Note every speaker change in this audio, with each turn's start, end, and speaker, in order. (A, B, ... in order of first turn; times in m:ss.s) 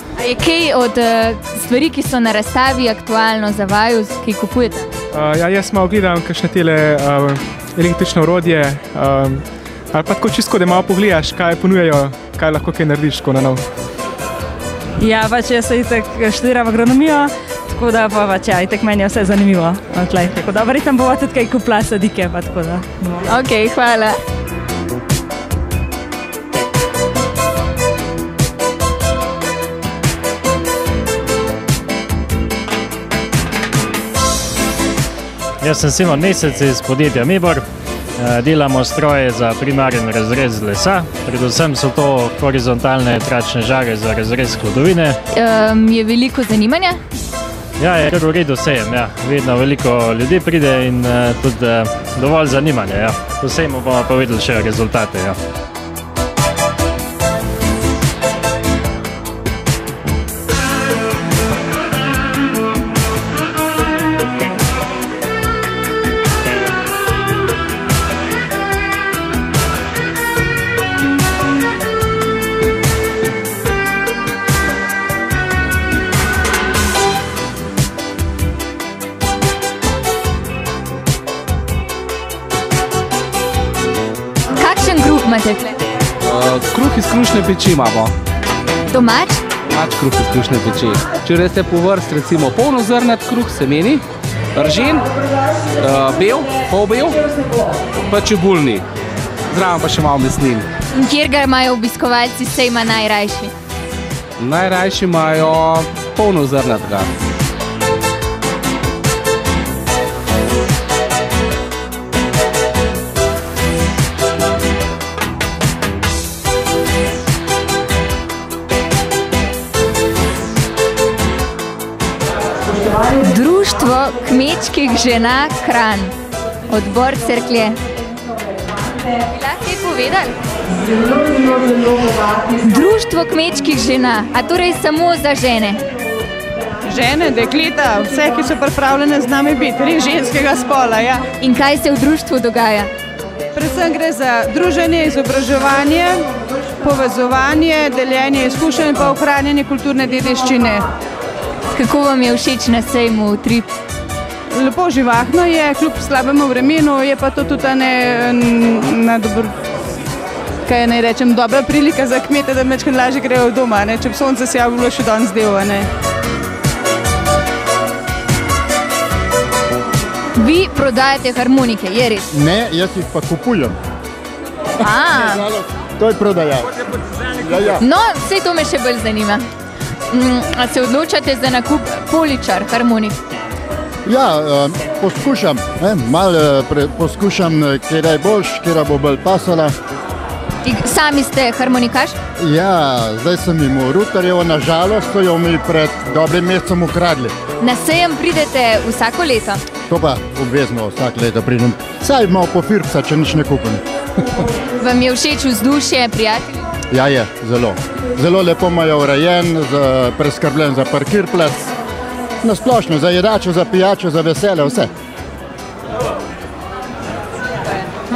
0:00.2-0:04.9 A
0:05.1-0:13.6 B
0:15.0-0:23.3 C
0:23.2-0:24.2 A
0:35.6-0:37.6 D
0:38.2-0:45.2 D
0:45.3-0:47.0 A
0:47.8-0:55.4 D
1:24.6-1:25.8 A
1:26.2-1:28.1 E
1:28.9-1:29.4 A
1:29.7-1:34.0 E
1:34.6-1:35.1 E
1:35.8-1:38.8 E
1:39.5-1:40.6 E
1:40.9-1:43.5 A
1:44.4-1:47.1 E
2:02.9-2:06.1 A
2:06.7-2:07.8 A
2:09.2-2:10.3 A
2:12.5-2:15.8 A
2:16.9-2:21.2 F
2:21.4-2:22.9 A
2:23.6-2:26.1 F
2:26.8-2:30.8 F
2:31.7-2:33.7 A
2:34.5-2:39.5 F
2:40.7-2:45.9 F
2:50.4-2:52.3 A
2:52.3-2:53.7 G
2:54.8-2:55.4 A
2:55.1-2:56.8 G
2:57.3-2:57.8 G
2:57.8-2:59.4 A
3:00.1-3:03.2 A
3:04.0-3:09.7 G
3:10.6-3:12.1 A
3:12.4-3:17.3 G
3:17.6-3:19.6 A
3:19.9-3:23.8 G
3:24.8-3:26.7 A
3:26.9-3:31.7 G
3:32.4-3:34.9 G